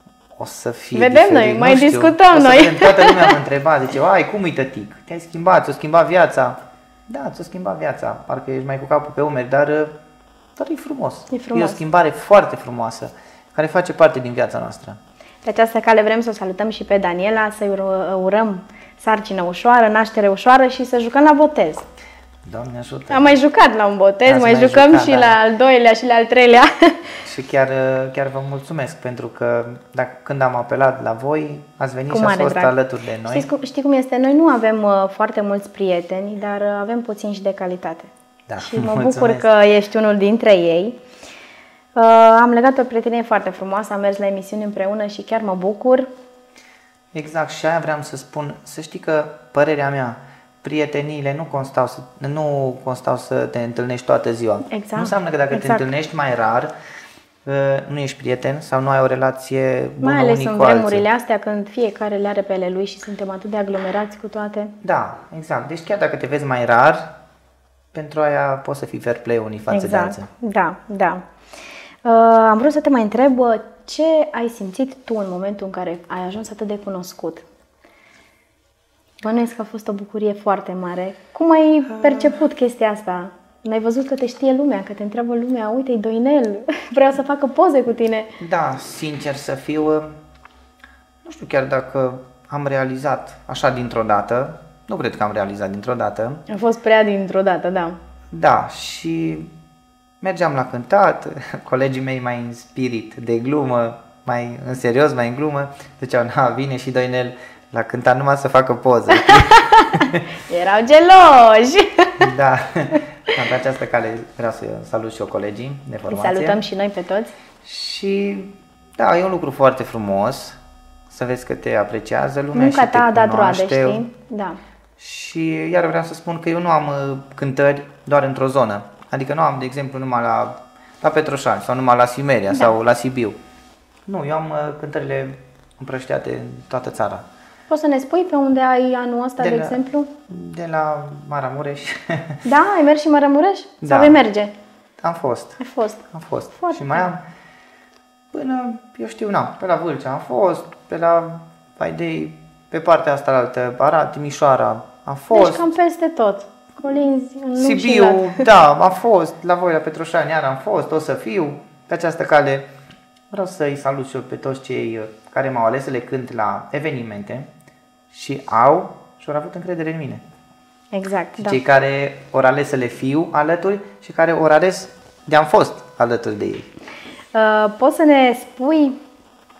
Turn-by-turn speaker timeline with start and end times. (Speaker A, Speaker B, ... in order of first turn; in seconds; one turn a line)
Speaker A: 0.3-10.0
Speaker B: 0.9-3.4
Speaker A: 10.6-15.0
Speaker B: 11.3-11.8
Speaker B: 15.4-21.8
Speaker A: 22.4-23.3
Speaker B: 23.1-27.2
Speaker A: 24.2-25.4
Speaker A: 27.2-33.5
Speaker B: 32.1-32.7
Speaker B: 33.3-41.0
Speaker A: 38.5-39.5
Speaker B: 41.9-46.1
Speaker A: 47.1-56.7
Speaker B: 54.7-55.9
Speaker A: 57.4-61.0
Speaker B: 60.0-64.7
Speaker A: 64.8-67.2
Speaker A: 67.9-70.3
Speaker B: 69.7-71.2
Speaker B: 72.0-77.4
Speaker B: 79.2-88.3
Speaker A: 81.9-82.4
Speaker A: 88.4-90.2
Speaker A: 91.2-96.4
Speaker B: 96.5-98.0
Speaker A: 98.3-99.5
Speaker A: 100.2-110.2
Speaker B: 109.1-112.3
Speaker A: 112.2-116.6
Speaker B: 116.1-117.3
Speaker A: 117.6-120.6
Speaker A: 121.1-124.0
Speaker B: 122.5-124.6
Speaker A: 125.0-133.4
Speaker A: 134.1-137.2
Speaker B: 137.7-140.1
Speaker A: 139.4-142.4
Speaker B: 142.4-144.5
Speaker A: 143.8-144.2
Speaker A: 145.0-147.2
Speaker B: 145.6-146.0
Speaker B: 146.5-147.1
Speaker A: 148.3-155.7
Speaker B: 155.3-158.5
Speaker A: 157.6-162.7
Speaker A: 163.3-167.5
Speaker A: 168.1-170.2
Speaker B: 170.9-171.6
Speaker A: 171.4-176.7
Speaker B: 177.3-179.0